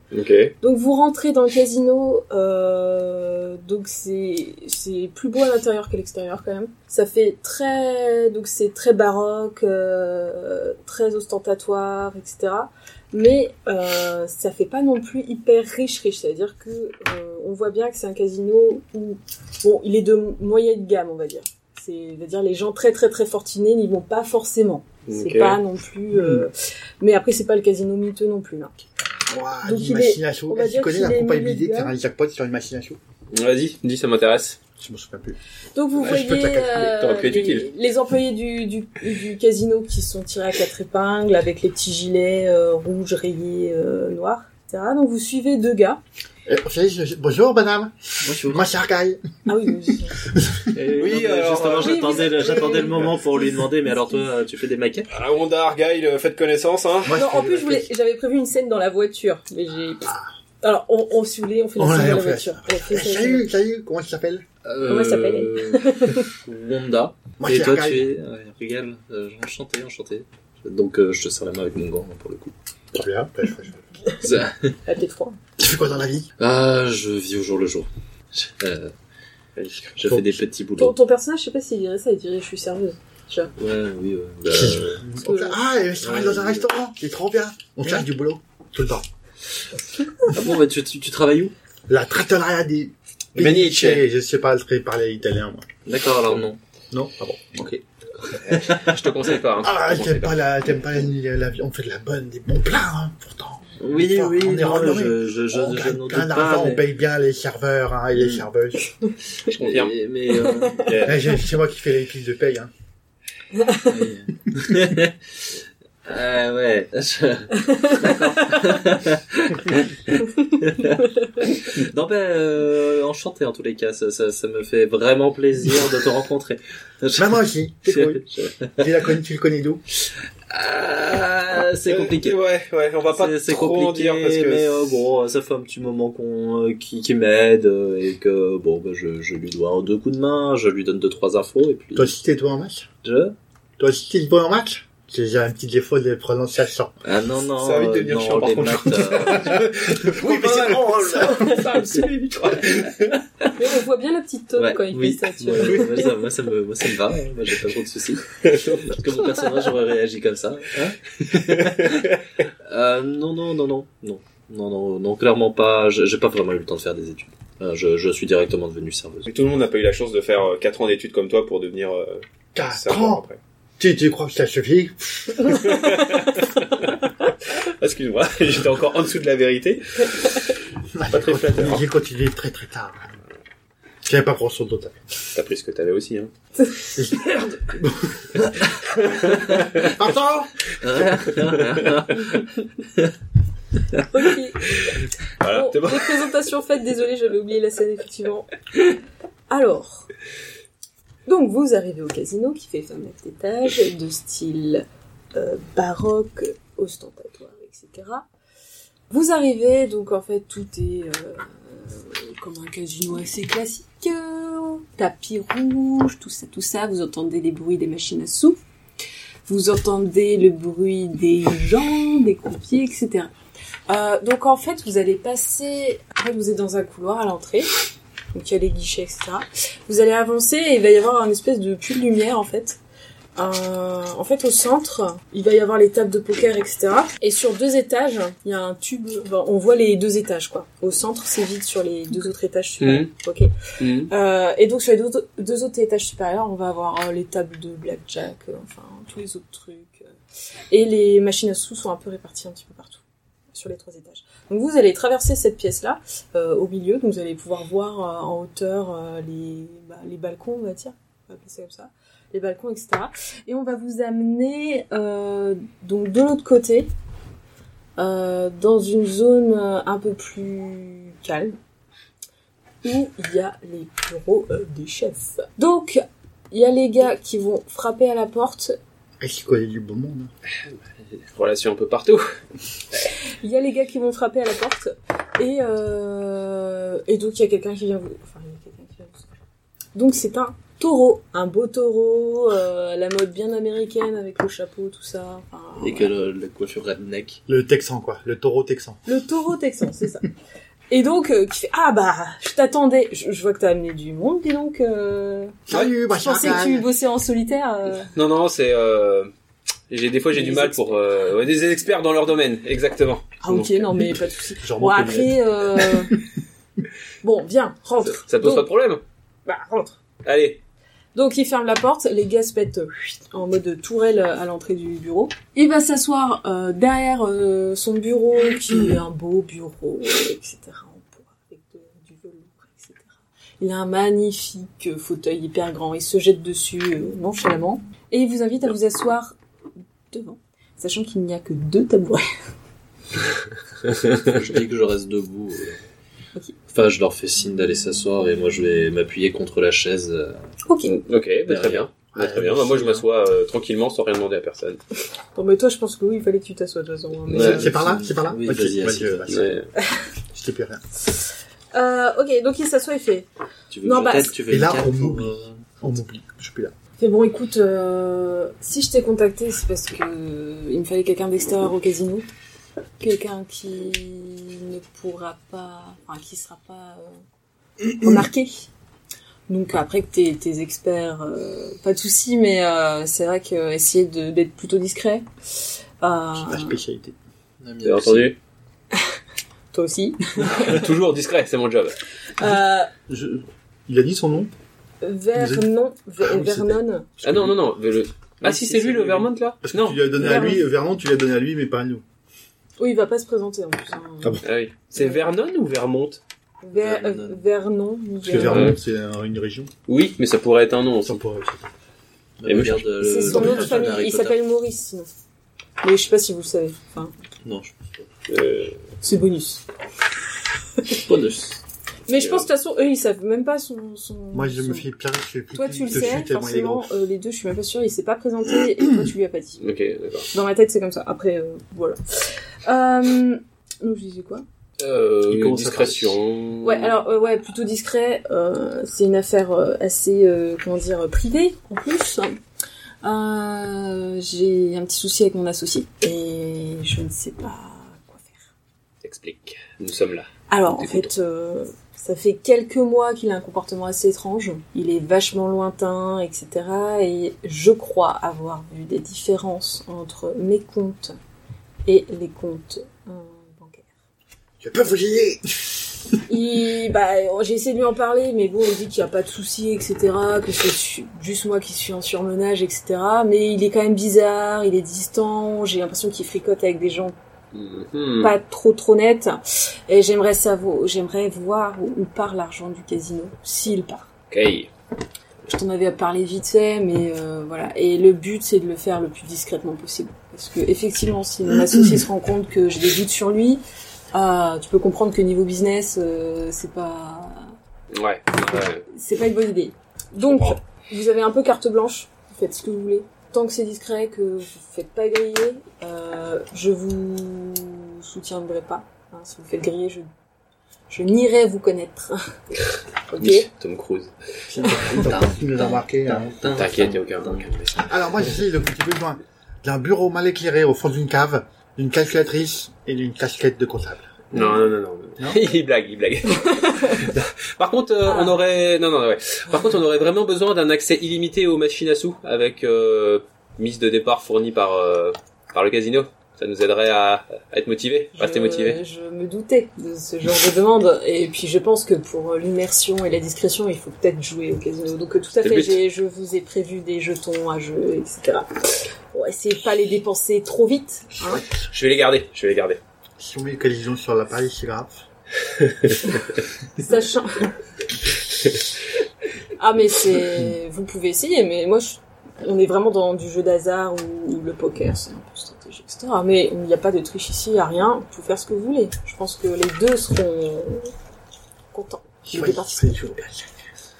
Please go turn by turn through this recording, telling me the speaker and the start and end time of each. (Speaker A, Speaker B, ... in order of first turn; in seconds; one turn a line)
Speaker A: 0.1-0.5
Speaker B: 0.6-28.7
Speaker A: 25.1-25.6
Speaker C: 26.1-26.4
Speaker C: 29.3-33.0
Speaker B: 29.6-31.9
Speaker A: 33.3-34.6
Speaker C: 34.8-35.4
Speaker B: 35.7-46.0
Speaker C: 35.9-36.9
Speaker A: 36.5-37.7
Speaker C: 46.5-49.2
Speaker D: 48.2-48.6
Speaker B: 49.5-50.2
Speaker C: 50.2-50.8
Speaker D: 50.7-55.1
Speaker A: 50.8-52.3
Speaker B: 51.8-53.6
Speaker A: 55.1-57.1
Speaker C: 57.0-57.9
Speaker B: 57.1-63.5
Speaker C: 61.8-64.5
Speaker D: 64.6-72.5
Speaker B: 64.8-66.3
Speaker C: 67.4-68.1
Speaker C: 72.9-73.8
Speaker D: 74.2-74.8
Speaker B: 74.8-75.4
Speaker C: 75.6-76.3
Speaker D: 76.4-78.9
Speaker A: 79.6-79.9
Speaker D: 80.0-81.0
Speaker C: 80.0-80.4
Speaker B: 80.8-83.5
Speaker D: 83.5-85.0
Speaker C: 84.5-89.0
Speaker B: 85.2-85.6
Speaker D: 86.0-86.7
Speaker D: 90.3-91.5
Speaker C: 91.9-95.7
Speaker A: 93.3-94.0
Speaker D: 95.8-96.6
Speaker C: 96.9-98.7
Speaker A: 98.5-100.4
Speaker C: 99.6-108.9
Speaker D: 103.8-106.8
Speaker A: 109.5-110.0
Speaker D: 109.5-111.0
Speaker A: 110.7-111.3
Speaker C: 111.0-112.7
Speaker D: 113.8-128.9
Speaker C: 127.1-128.2
Speaker C: 128.8-129.8
Speaker D: 130.5-132.4
Speaker A: 131.8-134.7
Speaker D: 133.1-142.1
Speaker C: 141.9-142.9
Speaker D: 143.0-143.3
Speaker C: 143.8-146.9
Speaker D: 147.0-149.7
Speaker A: 147.6-153.2
Speaker C: 150.2-151.6
Speaker B: 153.5-156.2
Speaker D: 154.6-169.3
Speaker A: 161.7-162.0
Speaker A: 169.3-173.4
Speaker C: 172.5-173.2
Speaker C: 173.8-175.5
Speaker A: 175.4-180.4
Speaker C: 180.9-183.1
Speaker A: 181.1-181.8
Speaker C: 184.0-185.0
Speaker A: 185.3-186.3
Speaker C: 186.9-188.7
Speaker A: 189.0-189.9
Speaker C: 189.8-190.5
Speaker D: 190.8-193.1
Speaker A: 191.4-191.9
Speaker B: 194.1-194.9
Speaker A: 195.4-196.3
Speaker B: 195.4-198.5
Speaker B: 199.5-200.1
Speaker B: 201.2-208.3
Speaker B: 209.1-218.6
Speaker B: 219.4-223.3
Speaker B: 223.9-227.7
Speaker B: 228.3-232.8
Speaker B: 233.3-243.5
Speaker A: 242.8-243.1
Speaker A: 243.8-244.1
Speaker B: 244.1-250.1
Speaker B: 250.7-266.9
Speaker B: 268.0-271.6
Speaker B: 272.8-278.8
Speaker C: 279.2-280.3
Speaker A: 281.2-282.3
Speaker B: 283.4-289.2
Speaker B: 289.9-296.1
Speaker D: 295.8-297.4
Speaker C: 297.5-299.0
Speaker B: 299.1-300.3
Speaker B: 300.9-308.1
Speaker C: 305.7-306.9
Speaker A: 308.1-309.3
Speaker A: 309.9-313.9
Speaker B: 310.3-311.0
Speaker B: 313.4-316.2
Speaker C: 314.6-316.0
Speaker B: 317.2-318.7
Speaker A: 318.2-319.0
Speaker B: 319.4-320.0
Speaker A: 320.2-320.6
Speaker B: 321.1-339.3
Speaker B: 340.1-342.2
Speaker D: 344.2-345.8
Speaker D: 346.7-350.4
Speaker B: 350.6-350.9
Speaker A: 350.8-354.8
Speaker D: 351.5-351.9
Speaker C: 352.1-353.0
Speaker B: 355.3-357.7
Speaker A: 357.3-357.7
Speaker C: 357.3-359.5
Speaker D: 357.4-359.4
Speaker A: 359.3-359.7
Speaker C: 360.3-360.8
Speaker B: 361.7-363.3
Speaker D: 363.7-365.6
Speaker B: 363.8-364.4
Speaker C: 364.5-366.7
Speaker B: 367.0-372.2
Speaker B: 373.0-377.1
Speaker B: 377.9-378.7
Speaker B: 379.5-385.2
Speaker B: 386.0-386.8
Speaker C: 386.4-387.1
Speaker D: 387.6-388.3
Speaker A: 387.8-388.4
Speaker B: 389.7-390.9
Speaker A: 390.5-392.0
Speaker B: 392.4-392.9
Speaker C: 393.1-394.5
Speaker B: 395.0-397.1
Speaker C: 395.4-395.6
Speaker C: 396.2-397.5
Speaker A: 397.2-400.2
Speaker D: 398.4-399.3
Speaker C: 399.6-402.0
Speaker B: 400.2-400.6
Speaker B: 402.8-404.4
Speaker A: 404.4-406.2
Speaker B: 406.6-408.7
Speaker D: 406.7-407.4
Speaker C: 408.2-409.7
Speaker A: 408.4-408.8
Speaker A: 409.9-411.2
Speaker C: 411.0-411.7
Speaker D: 412.4-414.4
Speaker A: 412.4-413.8
Speaker B: 413.0-415.1
Speaker B: 415.8-417.1
Speaker D: 417.4-417.8
Speaker A: 418.3-418.8
Speaker B: 419.0-419.6
Speaker D: 420.9-421.6
Speaker B: 422.1-424.9
Speaker A: 422.1-422.4
Speaker C: 424.3-426.9
Speaker B: 425.5-429.6
Speaker A: 429.6-430.3
Speaker B: 430.3-434.4
Speaker A: 434.8-436.9
Speaker D: 435.3-436.1
Speaker B: 436.6-442.4
Speaker B: 443.0-448.4
Speaker A: 449.0-451.1
Speaker B: 450.5-461.1
Speaker B: 461.9-463.9
Speaker C: 464.6-465.9
Speaker B: 466.3-477.1
Speaker A: 477.5-478.3
Speaker B: 478.2-484.1
Speaker A: 484.3-484.7
Speaker B: 485.5-493.6
Speaker B: 494.1-497.5
Speaker A: 497.9-498.8
Speaker B: 498.3-510.1
Speaker B: 510.9-512.3
Speaker B: 513.1-513.5
Speaker A: 513.2-514.1
Speaker C: 514.5-516.4
Speaker D: 514.8-517.9
Speaker A: 516.5-517.9
Speaker C: 517.9-524.6
Speaker A: 524.3-538.8
Speaker B: 526.6-527.0
Speaker B: 528.0-528.4
Speaker B: 538.2-551.4
Speaker A: 545.4-545.8
Speaker A: 551.7-552.8
Speaker C: 553.2-555.0
Speaker B: 556.8-557.5
Speaker B: 559.6-570.9
Speaker B: 571.7-573.0
Speaker C: 572.2-573.5